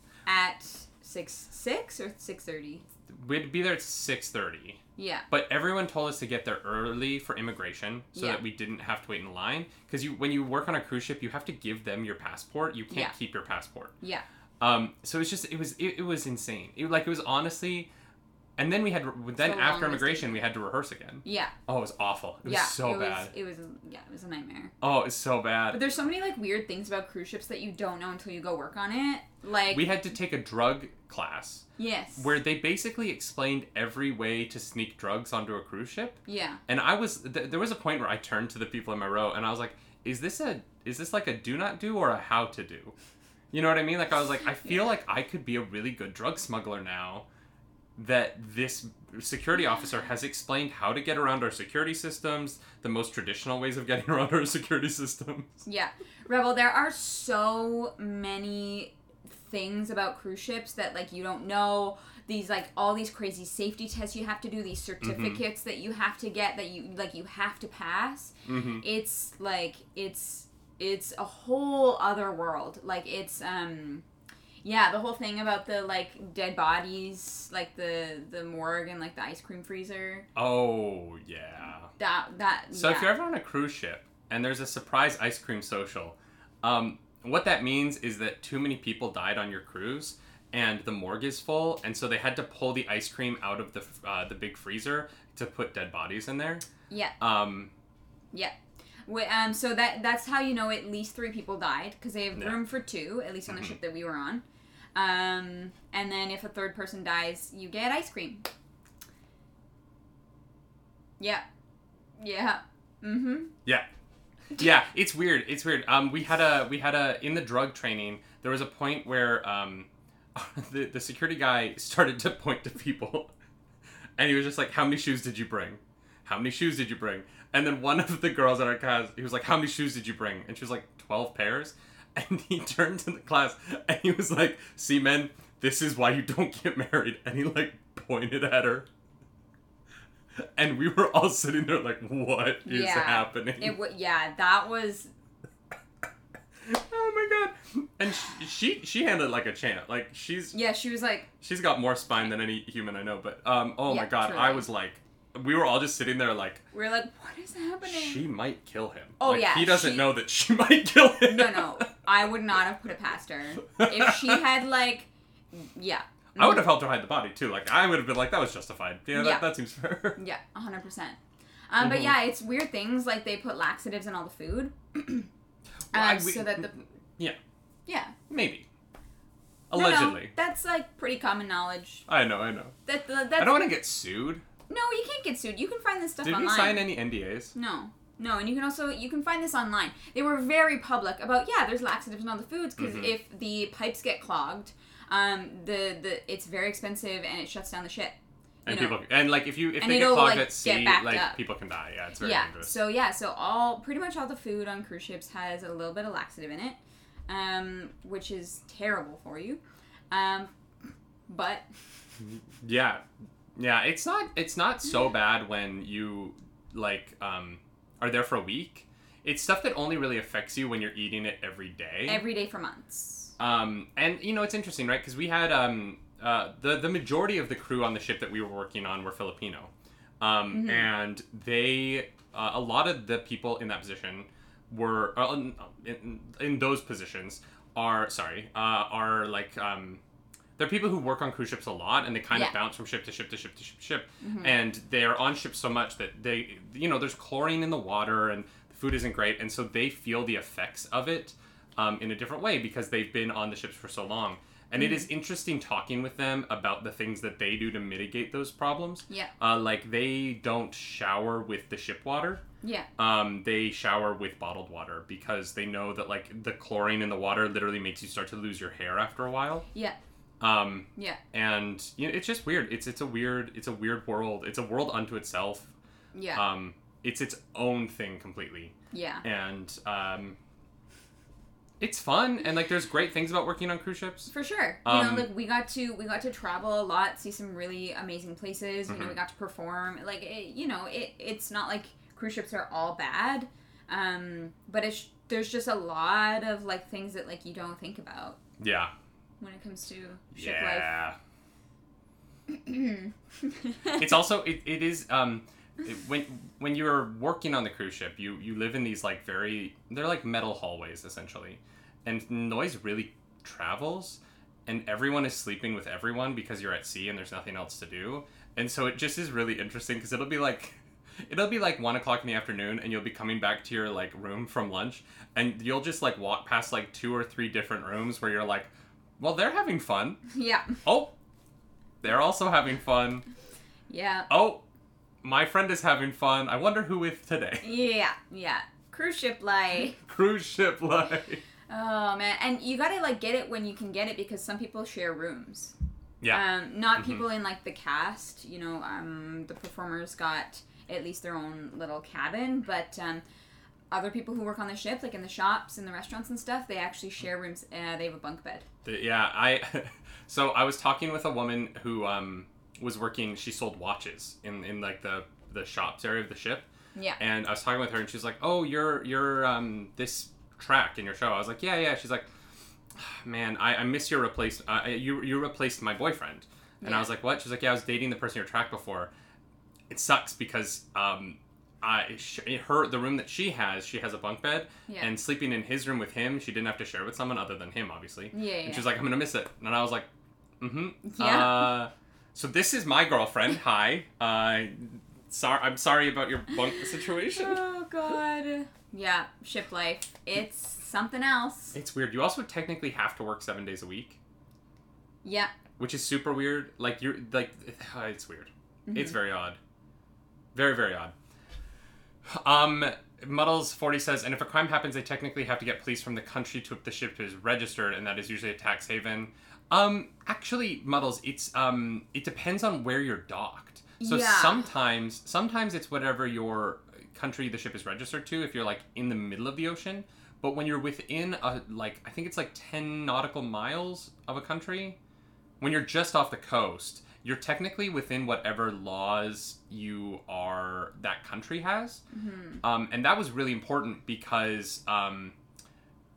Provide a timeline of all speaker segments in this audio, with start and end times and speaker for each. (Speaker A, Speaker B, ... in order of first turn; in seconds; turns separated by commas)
Speaker A: 0.2-2.8, Speaker B: 3.1-13.9, Speaker A: 5.0-5.2, Speaker A: 8.1-8.4, Speaker B: 14.6-17.9, Speaker B: 18.6-23.3, Speaker A: 19.4-20.4, Speaker A: 21.2-21.5, Speaker A: 22.4-24.7, Speaker B: 24.8-25.8, Speaker A: 25.7-29.9, Speaker B: 29.7-31.6, Speaker A: 31.8-32.3, Speaker B: 32.2-42.9, Speaker A: 36.3-36.6, Speaker B: 43.5-47.2, Speaker B: 48.0-55.6, Speaker A: 55.6-74.0, Speaker B: 65.0-65.4, Speaker B: 68.5-68.8, Speaker A: 74.6-80.3, Speaker B: 80.3-81.9, Speaker A: 82.0-83.1, Speaker B: 82.7-96.6, Speaker A: 96.9-97.2, Speaker B: 97.2-97.7, Speaker A: 98.3-104.4, Speaker B: 102.3-102.6, Speaker B: 103.5-103.7, Speaker A: 104.9-108.5, Speaker A: 111.2-111.4, Speaker A: 112.2-113.5, Speaker B: 114.5-123.3, Speaker B: 124.2-138.9, Speaker B: 140.4-143.8, Speaker A: 142.6-145.1, Speaker B: 146.6-150.6, Speaker A: 150.5-151.3, Speaker B: 151.4-156.6, Speaker A: 153.9-154.7, Speaker A: 156.7-158.2, Speaker B: 157.8-161.8, Speaker A: 159.2-160.2, Speaker A: 161.2-166.7, Speaker B: 163.8-164.4, Speaker B: 166.4-170.2, Speaker A: 169.1-169.5, Speaker A: 170.2-171.2, Speaker A: 171.7-175.3, Speaker B: 171.8-172.2, Speaker B: 175.9-177.4, Speaker A: 175.9-176.8, Speaker A: 177.8-178.2, Speaker B: 178.3-178.6, Speaker B: 179.7-180.3, Speaker A: 179.7-182.1, Speaker B: 182.1-182.7, Speaker A: 182.8-183.7, Speaker B: 183.4-184.4, Speaker A: 184.7-186.9, Speaker B: 186.2-187.5, Speaker A: 187.5-198.2, Speaker B: 192.8-193.1, Speaker B: 198.7-202.7, Speaker A: 198.7-199.0, Speaker A: 199.8-201.4, Speaker A: 202.2-210.5, Speaker A: 211.3-211.7, Speaker B: 212.6-213.0, Speaker B: 213.6-222.2, Speaker A: 222.1-223.3, Speaker B: 223.4-240.0, Speaker A: 230.5-230.9, Speaker B: 240.6-262.4, Speaker A: 244.2-244.5, Speaker A: 254.8-255.1, Speaker A: 262.6-262.9, Speaker B: 263.0-269.6, Speaker B: 270.4-275.7, Speaker A: 276.1-276.4, Speaker B: 276.3-280.4, Speaker A: 278.9-279.2, Speaker B: 281.8-284.3, Speaker A: 284.3-298.4, Speaker B: 284.8-285.3, Speaker B: 288.9-289.1, Speaker B: 298.6-298.9, Speaker A: 299.4-300.9, Speaker B: 300.3-301.1, Speaker A: 302.5-304.1, Speaker B: 304.0-330.2, Speaker A: 330.3-330.8, Speaker B: 330.8-331.1, Speaker B: 332.0-333.2, Speaker A: 333.9-334.3, Speaker B: 334.3-334.6, Speaker B: 335.2-337.6, Speaker A: 337.6-340.0, Speaker B: 339.9-341.4, Speaker A: 341.7-345.7, Speaker A: 346.3-353.2, Speaker B: 346.9-347.2, Speaker A: 353.9-358.6, Speaker B: 358.8-366.6, Speaker B: 367.2-372.3, Speaker B: 372.9-379.1, Speaker A: 376.8-377.1, Speaker B: 379.9-390.1, Speaker A: 384.9-385.1, Speaker A: 388.3-388.9, Speaker B: 390.6-397.6, Speaker A: 391.0-391.8, Speaker A: 397.3-401.8, Speaker B: 401.7-404.2, Speaker A: 405.2-405.5, Speaker B: 405.8-409.6, Speaker A: 408.9-409.2, Speaker B: 410.5-411.1, Speaker B: 412.3-435.0, Speaker A: 424.0-424.7, Speaker B: 435.6-442.0, Speaker A: 442.1-442.6, Speaker B: 442.6-445.3